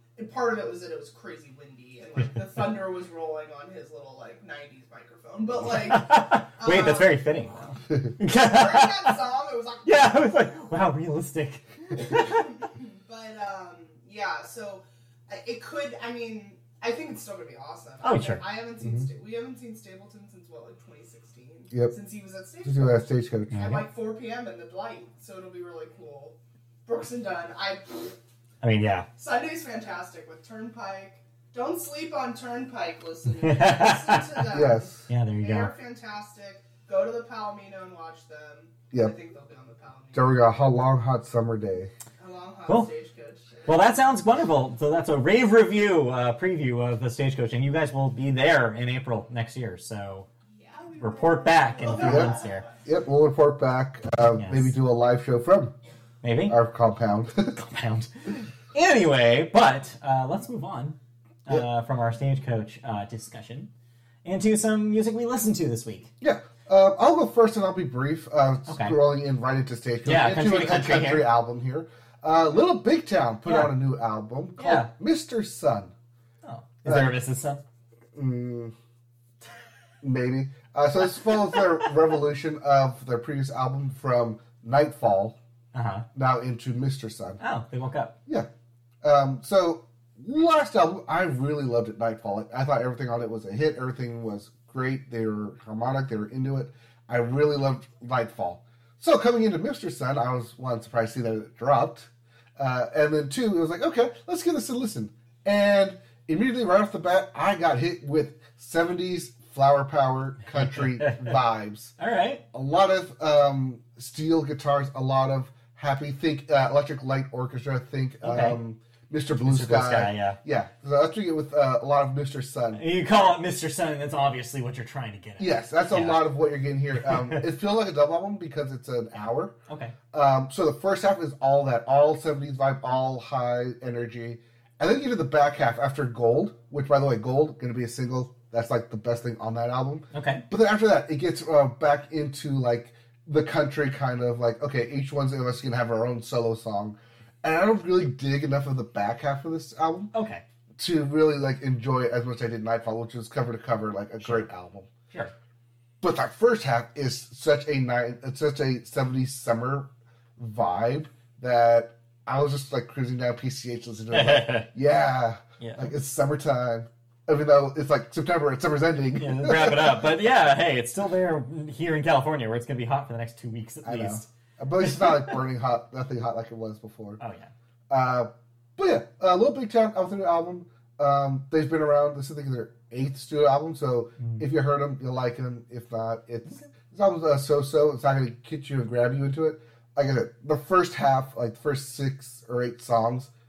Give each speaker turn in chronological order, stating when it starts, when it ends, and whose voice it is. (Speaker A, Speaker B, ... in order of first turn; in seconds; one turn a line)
Speaker A: 0.2-7.2
Speaker B: 5.9-9.2
Speaker A: 8.3-10.8
Speaker B: 9.8-12.7
Speaker A: 12.1-28.2
Speaker B: 18.0-18.4
Speaker C: 22.6-23.7
Speaker B: 23.5-23.8
Speaker B: 28.6-29.1
Speaker A: 29.2-40.4
Speaker B: 33.4-34.5
Speaker C: 34.5-35.0
Speaker B: 35.1-35.7
Speaker C: 40.1-41.9
Speaker A: 42.2-43.8
Speaker B: 43.7-50.3
Speaker A: 50.6-52.8
Speaker B: 51.0-52.7
Speaker C: 52.0-52.3
Speaker C: 52.9-55.7
Speaker B: 54.4-54.7
Speaker B: 56.2-56.6
Speaker C: 56.5-57.6
Speaker B: 57.6-63.7
Speaker B: 64.2-66.1
Speaker C: 66.2-75.9
Speaker B: 68.7-69.0
Speaker B: 70.0-71.3
Speaker B: 73.5-73.7
Speaker B: 74.6-74.9
Speaker B: 76.4-77.6
Speaker C: 76.9-77.1
Speaker C: 78.1-78.7
Speaker C: 80.0-85.4
Speaker B: 85.7-86.0
Speaker C: 86.1-87.4
Speaker B: 87.4-88.2
Speaker C: 89.0-111.9
Speaker B: 110.5-111.4
Speaker B: 112.0-112.4
Speaker C: 112.5-122.8
Speaker B: 118.2-118.6
Speaker B: 119.4-120.4
Speaker B: 122.7-126.2
Speaker C: 125.4-129.6
Speaker B: 127.0-127.4
Speaker B: 129.7-129.9
Speaker C: 130.1-150.1
Speaker B: 140.1-140.4
Speaker B: 150.1-150.4
Speaker C: 150.8-154.9
Speaker C: 156.0-170.0
Speaker B: 164.1-164.7
Speaker B: 165.6-165.9
Speaker B: 169.2-174.3
Speaker C: 173.8-177.2
Speaker B: 174.8-175.3
Speaker B: 177.2-177.5
Speaker C: 177.9-193.3
Speaker B: 184.2-184.4